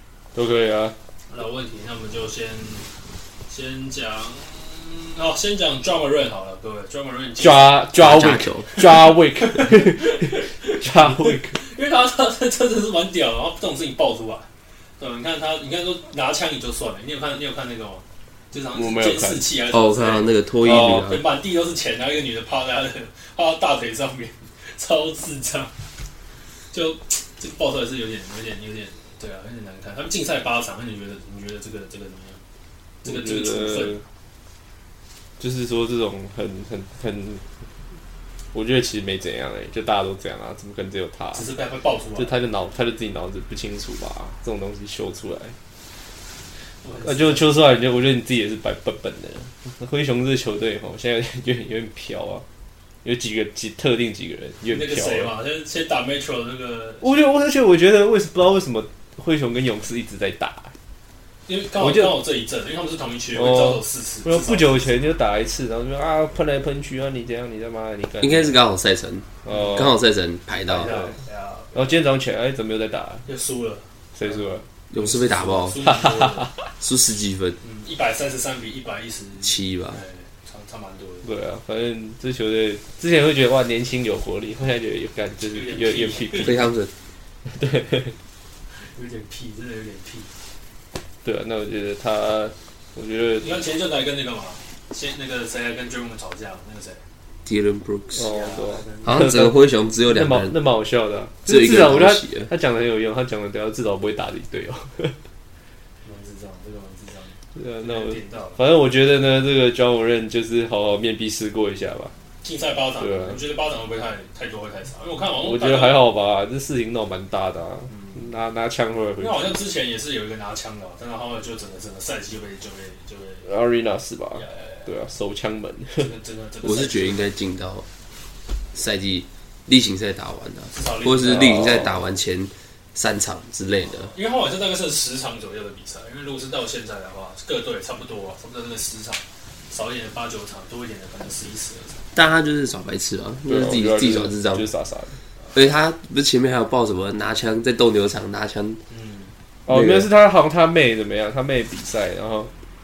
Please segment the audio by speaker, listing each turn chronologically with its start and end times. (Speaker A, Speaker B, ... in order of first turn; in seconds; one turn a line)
Speaker A: 0.3-0.9
Speaker B: 1.3-2.9
Speaker B: 3.5-7.8
Speaker A: 7.4-11.6
Speaker C: 8.0-8.8
Speaker B: 8.8-14.5
Speaker B: 15.0-25.7
Speaker A: 18.7-19.5
Speaker C: 19.7-21.2
Speaker A: 20.6-21.2
Speaker B: 26.7-32.4
Speaker B: 33.0-34.0
Speaker A: 33.0-34.0
Speaker A: 35.4-37.4
Speaker A: 38.5-41.5
Speaker B: 41.3-42.4
Speaker A: 42.2-45.5
Speaker B: 46.8-47.6
Speaker A: 47.0-52.4
Speaker A: 53.0-55.3
Speaker B: 54.7-57.3
Speaker A: 57.0-60.7
Speaker B: 61.5-64.9
Speaker A: 61.8-62.2
Speaker A: 63.3-68.6
Speaker C: 68.2-71.0
Speaker A: 69.4-69.9
Speaker B: 69.5-69.8
Speaker B: 70.7-71.7
Speaker A: 70.8-71.2
Speaker A: 71.7-73.2
Speaker B: 73.3-76.5
Speaker A: 74.1-74.7
Speaker C: 74.9-75.8
Speaker A: 75.8-76.5
Speaker C: 76.8-77.6
Speaker B: 77.6-81.3
Speaker C: 79.4-80.0
Speaker A: 81.2-86.7
Speaker B: 85.5-86.5
Speaker C: 86.4-86.9
Speaker A: 87.5-88.2
Speaker B: 88.7-90.3
Speaker A: 91.2-93.6
Speaker B: 93.4-97.0
Speaker C: 97.5-98.3
Speaker A: 98.2-105.2
Speaker B: 98.2-99.1
Speaker C: 99.0-100.5
Speaker C: 101.5-102.5
Speaker B: 106.0-108.6
Speaker A: 107.5-112.1
Speaker B: 112.4-116.0
Speaker A: 113.0-113.4
Speaker A: 115.4-119.6
Speaker B: 117.9-118.2
Speaker B: 119.2-123.5
Speaker A: 123.5-126.1
Speaker B: 124.3-124.9
Speaker B: 126.0-127.3
Speaker C: 126.6-127.8
Speaker C: 128.7-134.1
Speaker B: 130.7-131.8
Speaker A: 131.2-132.0
Speaker B: 133.8-142.1
Speaker C: 142.1-144.7
Speaker A: 143.5-145.2
Speaker C: 145.5-148.8
Speaker B: 148.9-149.3
Speaker A: 149.7-152.5
Speaker C: 149.7-150.1